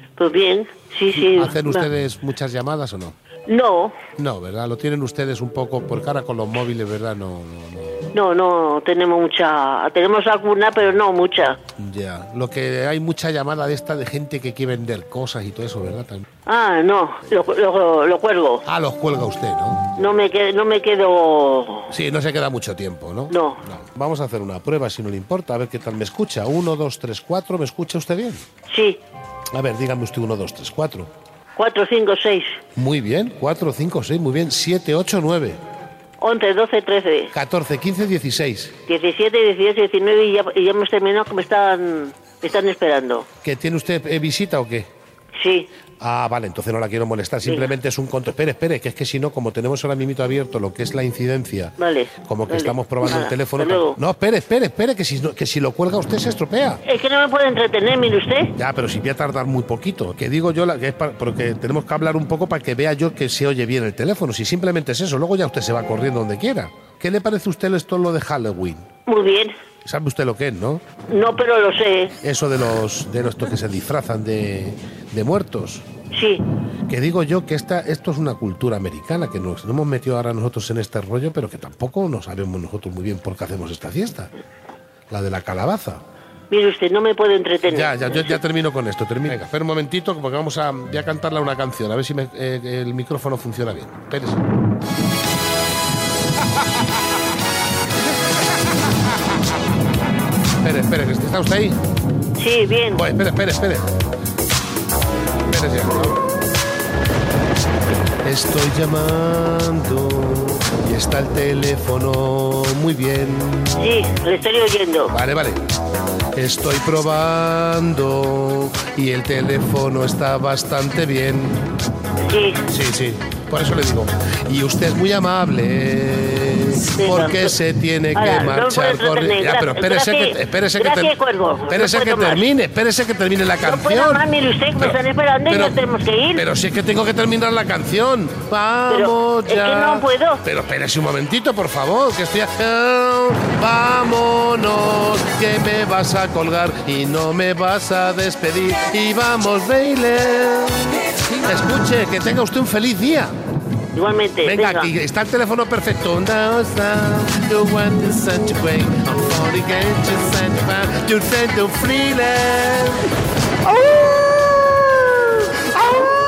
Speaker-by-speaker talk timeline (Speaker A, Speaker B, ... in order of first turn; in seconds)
Speaker A: 0.2-1.9, 3.5-4.0, 8.1-11.6, 16.5-18.6, 20.0-21.9, 23.3-23.6, 28.7-29.0, 31.6-32.6, 36.2-37.3, 38.9-43.3, 45.4-45.7, 47.4-47.7, 51.8-54.0, 56.9-58.5, 69.1-69.5, 71.1-72.2, 76.1-76.4, 86.5-88.4, 102.4-103.0, 113.8-115.1, 122.2-122.6, 126.9-127.5, 128.2-132.4, 133.6-136.4, 138.9-140.4, 153.9-154.9
Speaker B: 1.2-3.2, 4.2-8.1, 11.8-16.3, 18.7-19.8, 21.9-28.4, 29.5-31.1, 32.8-35.6, 37.3-38.8, 43.4-44.9, 46.0-56.8, 58.6-68.9, 69.8-70.8, 72.2-75.9, 76.9-84.3, 85.1-86.0, 87.7-94.5, 100.6-101.8, 102.9-103.8, 105.5-106.2, 108.2-113.8, 115.1-115.6, 116.3-121.7, 122.7-131.1, 131.7-134.2, 134.8-135.8, 136.3-153.3, 154.4-163.1